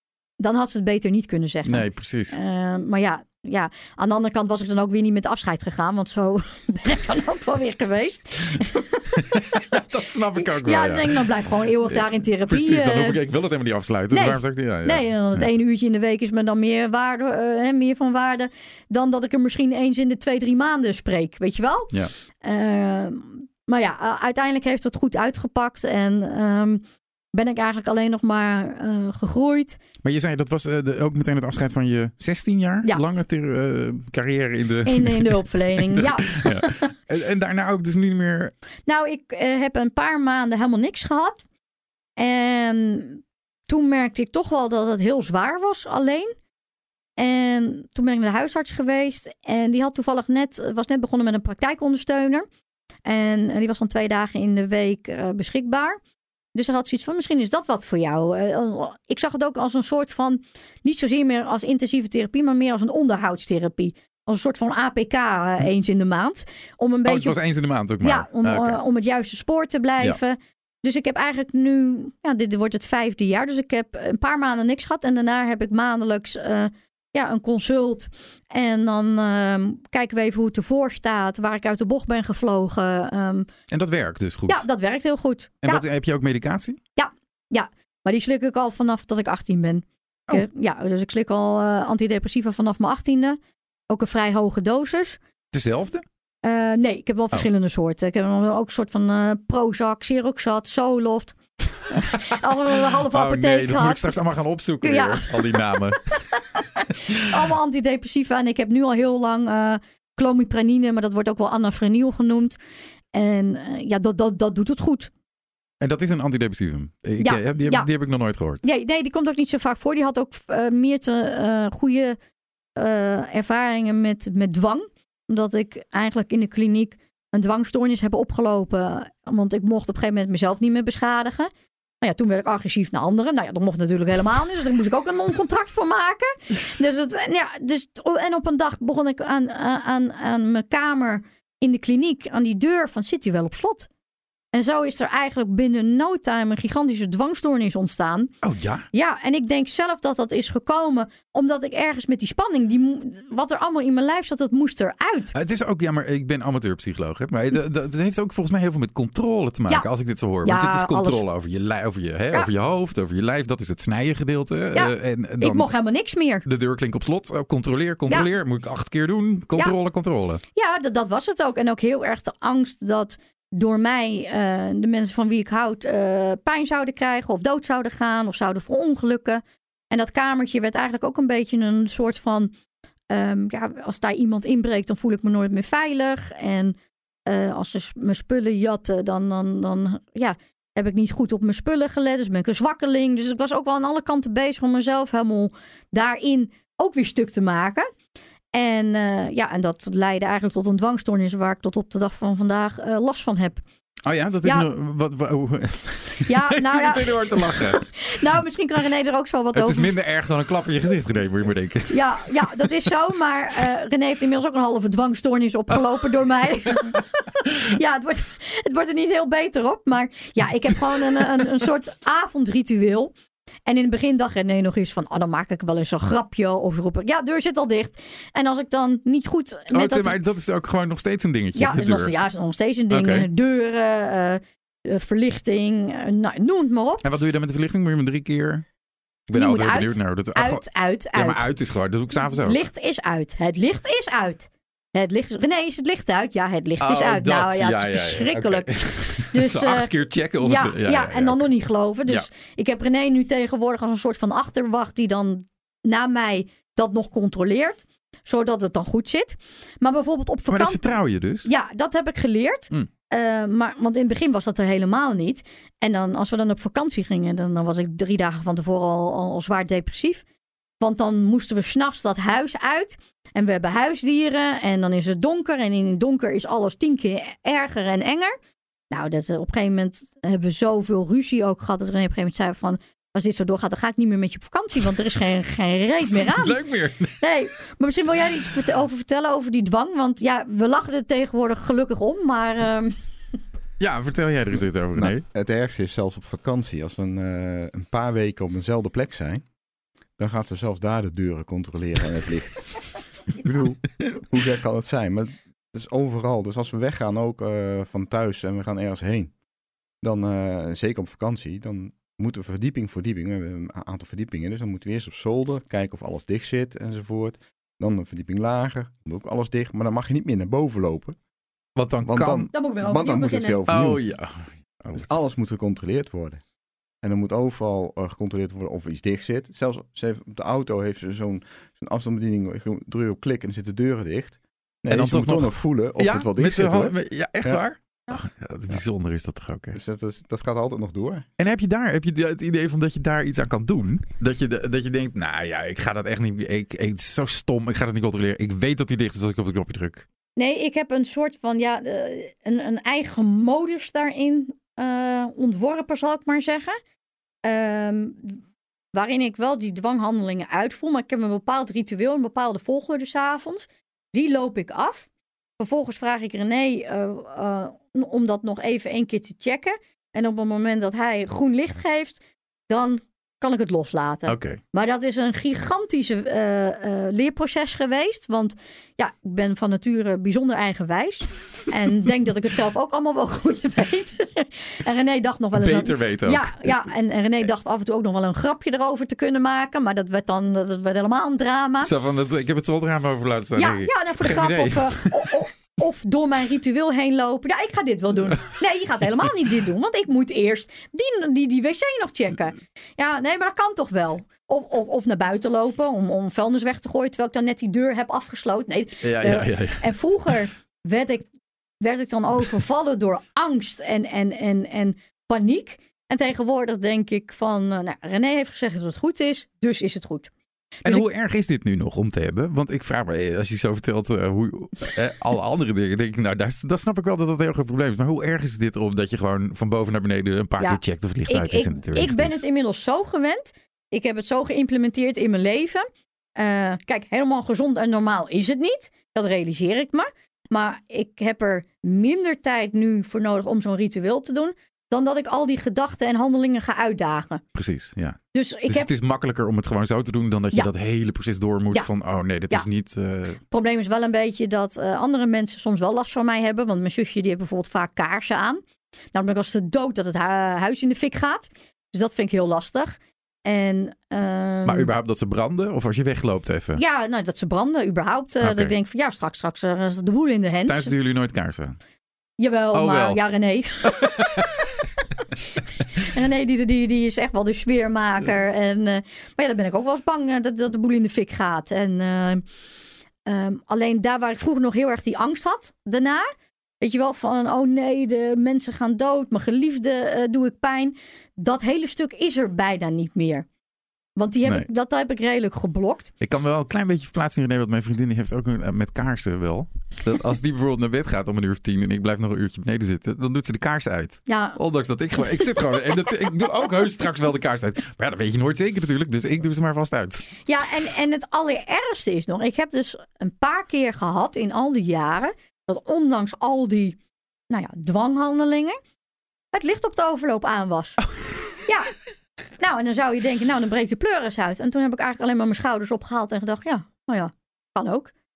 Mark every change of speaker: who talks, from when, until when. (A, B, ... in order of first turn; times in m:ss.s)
0:00.4-0:09.7 A
0:01.7-0:02.4 B
0:09.2-0:11.3 B
0:10.4-0:13.2 A
0:11.9-0:15.5 B
0:14.1-0:29.8 A
0:30.0-0:38.5 B
0:34.8-0:36.9 A
0:38.9-0:41.4 A
0:42.2-0:46.4 A
0:47.2-0:52.5 A
0:53.1-0:56.0 A
0:56.6-1:07.4 A
1:07.0-1:08.8 B
1:08.0-1:23.5 A
1:23.7-1:24.7 B
1:24.5-1:25.8 A
1:25.6-1:26.8 B
1:27.0-1:35.2 A
1:35.5-1:36.0 B
1:36.4-1:44.2 A
1:42.0-1:46.2 B
1:44.8-1:52.6 A
1:46.9-1:47.2 B
1:53.1-1:55.1 A
1:55.8-1:58.6 B
1:57.2-1:57.9 A
1:58.6-2:02.2 A
2:02.8-2:11.5 A
2:12.0-2:23.9 A
2:24.5-2:28.3 A
2:28.4-2:28.9 B
2:28.9-2:35.3 A
2:35.3-2:45.7 B
2:40.4-2:41.2 A
2:44.7-2:46.5 A
2:46.4-2:50.4 B
2:50.6-3:02.5 A
3:03.1-3:17.9 A
3:18.5-3:23.6 A
3:24.0-3:27.9 B
3:26.2-3:29.9 A
3:29.5-3:32.7 B
3:31.9-3:43.1 A
3:40.9-3:41.4 B
3:43.7-3:50.2 A
3:49.7-3:52.1 B
3:51.6-3:57.1 A
3:52.9-3:53.3 B
3:57.0-3:58.6 B
3:59.3-4:00.6 B
3:59.3-4:01.5 A
4:01.1-4:02.6 B
4:02.3-4:20.8 A
4:06.8-4:11.5 B
4:20.5-4:21.5 B
4:21.4-4:30.2 A
4:30.8-4:38.4 A
4:38.9-4:46.6 A
4:46.1-4:47.2 B
4:47.2-4:53.0 A
4:53.8-4:55.2 B
4:55.0-4:59.4 C
5:00.2-5:09.3 C
5:10.0-5:21.2 C
5:21.8-5:22.5 B
5:22.1-5:24.0 C
5:22.5-5:23.7 A
5:23.7-5:25.2 B
5:25.0-5:26.4 C
5:27.0-5:37.6 C
5:34.9-5:39.8 B
5:39.7-5:41.3 C
5:41.4-5:50.1 B
5:50.4-5:56.8 A
5:57.4-5:58.4 A
5:58.9-6:31.9 A
6:14.3-6:14.6 B
6:25.5-6:26.9 B
6:31.8-6:35.4 B
6:33.6-6:51.3 A
6:49.0-6:50.3 B
6:51.8-7:00.3 A
7:00.8-7:12.4 B
7:10.6-7:27.4 A
7:27.6-7:33.4 B
7:28.3-7:28.9 A
7:33.5-7:38.6 A
7:39.1-7:44.9 A
7:44.6-7:46.8 B
7:46.8-7:50.9 A
7:48.4-7:48.8 B
7:50.7-7:51.8 B
7:52.4-7:54.5 A
7:52.7-7:53.2 B
7:53.8-7:54.7 B
7:55.6-8:02.4 A
8:03.3-8:13.5 A
8:14.2-8:16.1 A
8:16.2-8:30.2 B
8:24.3-8:24.6 A
8:30.5-8:37.0 A
8:37.5-8:38.8 A
8:39.5-8:41.0 A
8:41.6-8:42.0 A
8:42.6-8:48.1 A